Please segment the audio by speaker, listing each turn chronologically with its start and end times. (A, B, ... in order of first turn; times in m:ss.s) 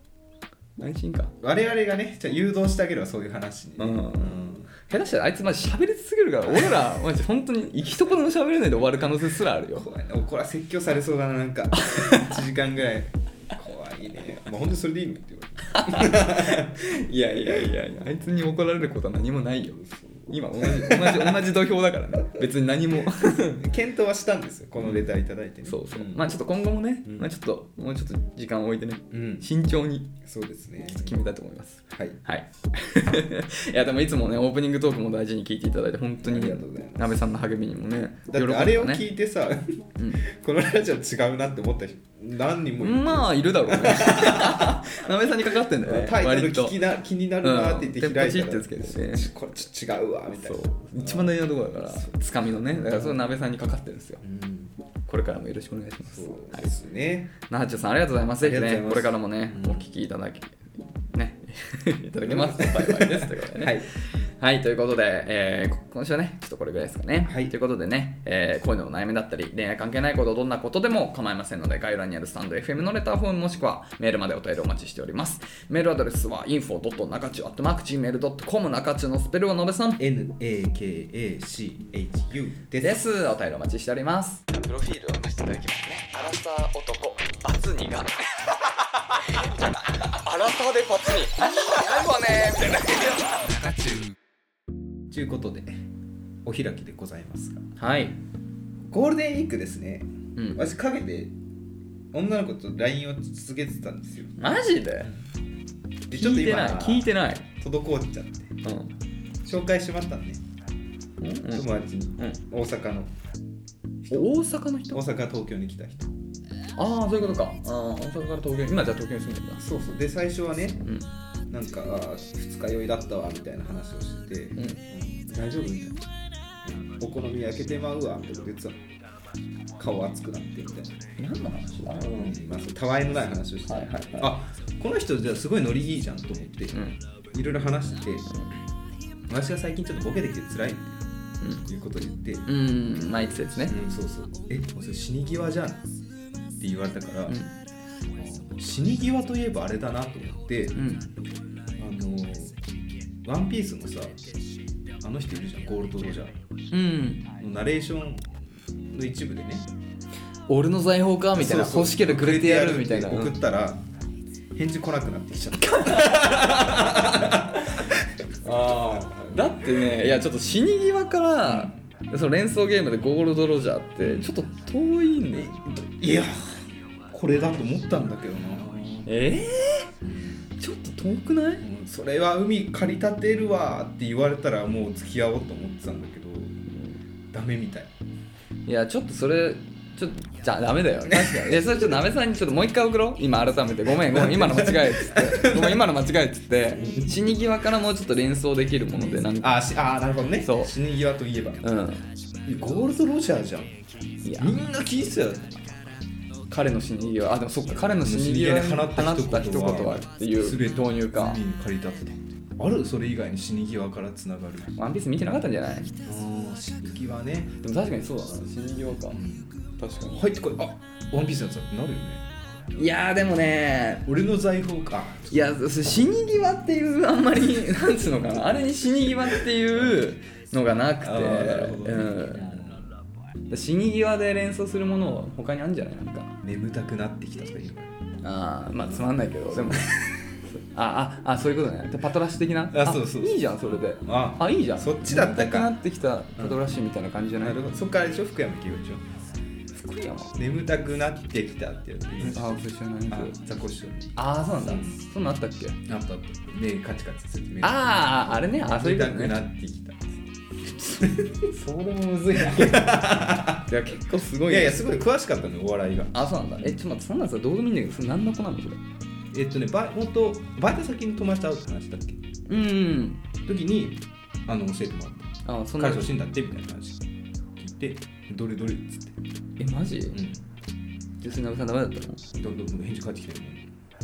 0:00.8-0:01.3 A
0:01.4-0:04.7 B
0:03.8-0:09.9 A
0:06.5-0:06.8 B
0:09.7-0:16.8 B
0:11.8-0:12.4 A
0:15.7-0:23.7 A
0:17.4-0:17.7 B
0:20.6-0:21.5 B
0:23.6-0:26.2 B
0:25.6-0:30.2 A
0:29.1-0:29.5 B
0:30.2-0:31.2 B
0:30.9-0:39.1 A
0:31.9-0:32.2 B
0:36.2-0:37.2 B
0:38.3-0:45.0 B
0:40.0-0:40.2 A
0:42.8-0:46.8 A
0:45.8-0:52.2 B
0:47.4-0:49.3 A
0:50.4-0:54.2 A
0:52.7-0:53.3 B
0:54.2-0:54.7 B
0:55.1-0:56.7 A
0:56.1-0:57.3 B
0:57.4-1:20.0 A
0:58.4-0:59.9 B
1:02.2-1:03.9 B
1:07.2-1:07.5 B
1:20.0-1:23.0 B
1:22.8-1:34.0 A
1:35.1-1:35.8 B
1:36.4-1:37.6 B
1:37.8-1:38.2 A
1:38.8-1:41.3 B
1:40.4-1:40.6 A
1:42.1-1:44.4 B
1:44.4-1:45.1 A
1:46.1-1:47.1 B
1:46.1-1:47.5 A
1:47.6-1:48.6 B
1:48.6-1:48.9 A
1:49.4-1:50.4 B
1:51.2-1:51.7 A
1:51.5-1:53.1 B
1:54.1-1:55.0 A
1:54.9-1:56.1 B
1:56.8-1:59.6 A
1:59.6-2:00.8 B
2:01.5-2:06.0 B
2:04.6-2:04.8 A
2:06.6-2:08.8 B
2:09.8-2:11.0 B
2:11.2-2:12.4 A
2:12.0-2:18.3 B
2:13.7-2:14.3 A
2:16.7-2:17.0 A
2:19.3-2:21.0 B
2:21.6-2:22.5 B
2:22.5-2:23.8 A
2:23.6-2:25.9 B
2:26.6-2:27.4 B
2:27.3-2:27.5 A
2:28.1-2:30.8 B
2:30.8-2:31.1 A
2:31.8-2:32.6 B
2:33.2-2:34.2 B
2:35.0-2:36.3 B
2:36.7-2:37.2 A
2:37.4-2:39.7 B
2:40.5-2:43.4 A
2:41.4-2:43.8 B
2:44.5-2:48.2 B
2:45.6-2:55.6 A
2:51.4-2:51.8 B
2:54.0-2:54.3 B
2:55.3-2:59.1 B
2:59.1-2:59.9 A
3:00.0-3:00.4 B
3:00.6-3:01.6 A
3:01.6-3:06.7 B
3:07.3-3:07.9 B
3:08.7-3:19.7 A
3:11.1-3:11.6 B
3:13.9-3:15.8 B
3:16.8-3:17.2 B
3:18.9-3:21.7 B
3:20.4-3:20.7 A
3:21.6-3:22.0 A
3:22.4-3:23.8 B
3:24.2-3:24.6 A
3:24.4-3:25.7 B
3:26.5-3:31.4 A
3:27.9-3:34.7 B
3:34.8-3:35.9 A
3:36.0-3:37.6 B
3:37.6-3:39.2 A
3:39.1-3:39.6 B
3:39.8-3:40.3 A
3:40.1-3:42.3 B
3:42.8-3:44.1 A
3:44.1-3:45.6 B
3:45.3-3:52.6 A
3:49.8-3:50.1 B
3:51.0-3:52.9 B
3:53.5-3:56.4 A
3:56.4-3:57.9 B
3:58.2-4:07.6 A
3:58.8-4:00.4 B
4:02.7-4:05.8 B
4:07.4-4:09.0 B
4:09.7-4:10.4 A
4:10.4-4:12.6 B
4:12.2-4:13.4 A
4:13.1-4:15.0 B
4:14.2-4:15.8 A
4:15.9-4:20.2 B
4:17.6-4:19.4 A
4:20.9-4:21.5 B
4:21.0-4:25.0 A
4:22.4-4:23.7 B
4:24.5-4:26.8 B
4:26.1-4:28.8 A
4:29.3-4:32.2 B
4:32.5-4:33.2 A
4:33.5-4:37.0 B
4:35.5-4:36.1 A
4:37.6-4:39.2 B
4:39.6-4:40.2 A
4:40.1-4:40.4 B
4:41.2-4:42.2 A
4:42.3-4:43.7 B